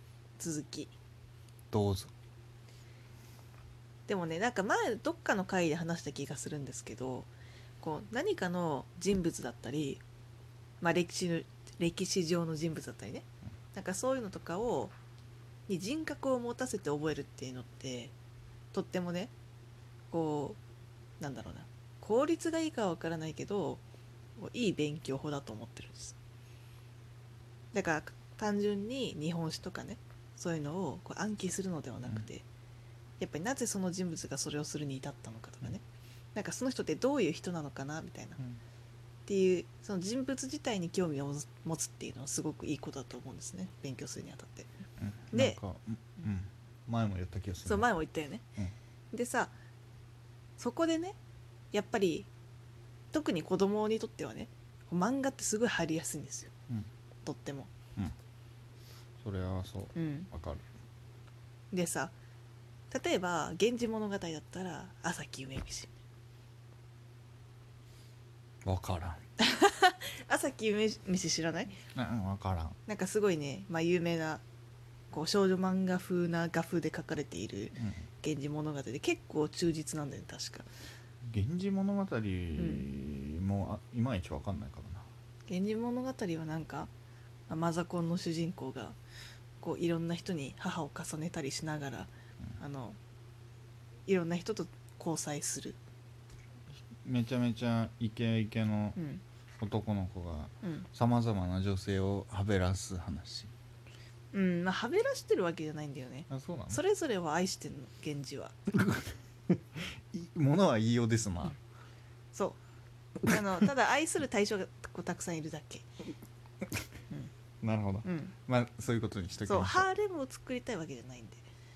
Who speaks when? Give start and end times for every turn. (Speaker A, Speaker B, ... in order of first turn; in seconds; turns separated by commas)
Speaker A: 0.4-0.9, Speaker B: 1.7-2.1, Speaker A: 4.1-10.0, Speaker A: 10.8-14.9, Speaker A: 15.7-18.1, Speaker A: 18.7-19.3, Speaker A: 20.1-20.6, Speaker A: 21.2-23.8, Speaker A: 24.4-26.2, Speaker A: 27.7-32.4, Speaker B: 32.0-32.3, Speaker A: 33.2-35.8, Speaker A: 36.3-38.4, Speaker A: 39.3-44.7, Speaker B: 45.0-47.9, Speaker A: 45.3-45.6, Speaker A: 47.6-48.5, Speaker A: 49.1-49.5, Speaker A: 50.6-51.2, Speaker A: 51.7-52.3, Speaker A: 53.1-56.5, Speaker A: 57.2-57.7, Speaker B: 59.2-60.6, Speaker A: 59.9-60.3, Speaker A: 61.7-62.1, Speaker A: 62.9-66.0, Speaker B: 68.6-69.2, Speaker A: 69.4-71.8, Speaker B: 71.9-72.8, Speaker A: 72.8-74.4, Speaker A: 75.1-80.7, Speaker B: 77.8-78.0, Speaker B: 81.2-85.1, Speaker A: 82.6-82.9, Speaker A: 85.5-86.9, Speaker A: 87.5-89.0, Speaker A: 89.6-93.0, Speaker A: 94.1-95.8, Speaker B: 97.0-99.0, Speaker A: 99.0-99.2, Speaker B: 99.6-103.5, Speaker A: 100.6-100.9, Speaker A: 104.3-108.5, Speaker B: 106.3-106.8, Speaker B: 108.7-111.6, Speaker A: 112.3-112.6, Speaker A: 113.2-115.8, Speaker B: 117.6-119.9, Speaker A: 118.0-118.3, Speaker A: 119.5-121.4